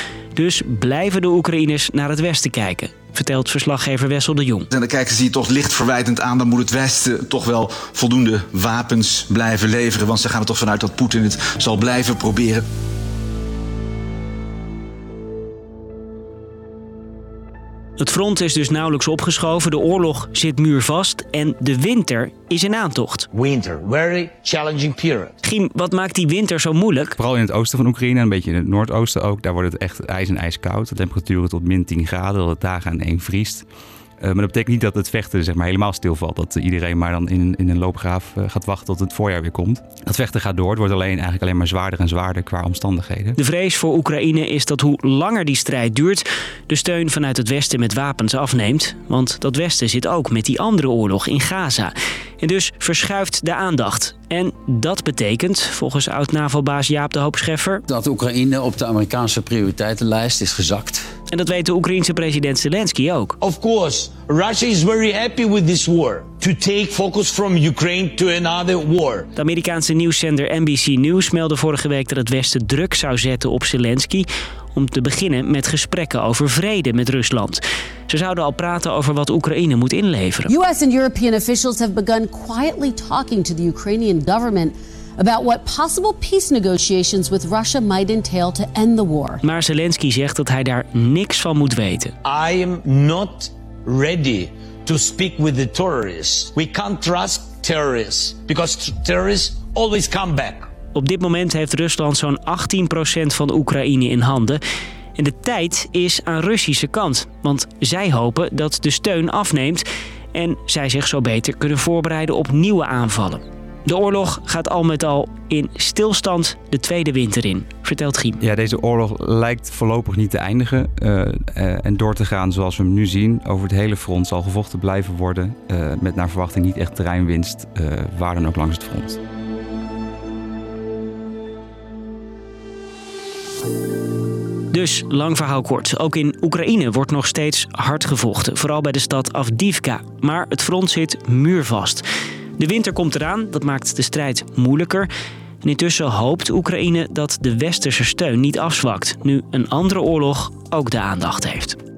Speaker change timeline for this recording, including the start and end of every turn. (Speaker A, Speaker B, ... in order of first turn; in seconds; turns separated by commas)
Speaker A: 0.3-4.7, Speaker B: 4.7-12.6, Speaker A: 18.0-23.3, Speaker C: 23.3-25.4, Speaker A: 25.4-27.2, Speaker D: 27.2-33.7, Speaker D: 34.2-43.4, Speaker A: 43.4-57.8, Speaker E: 57.9-61.1, Speaker A: 61.3-63.4, Speaker C: 63.4-69.3, Speaker A: 69.4-80.5, Speaker F: 80.5-89.4, Speaker A: 89.4-92.1, Speaker C: 92.2-100.7, Speaker A: 100.9-104.6, Speaker A: 105.2-118.4, Speaker D: 118.4-129.2, Speaker A: 134.7-142.0, Speaker A: 142.6-145.1, Speaker A: 145.6-151.8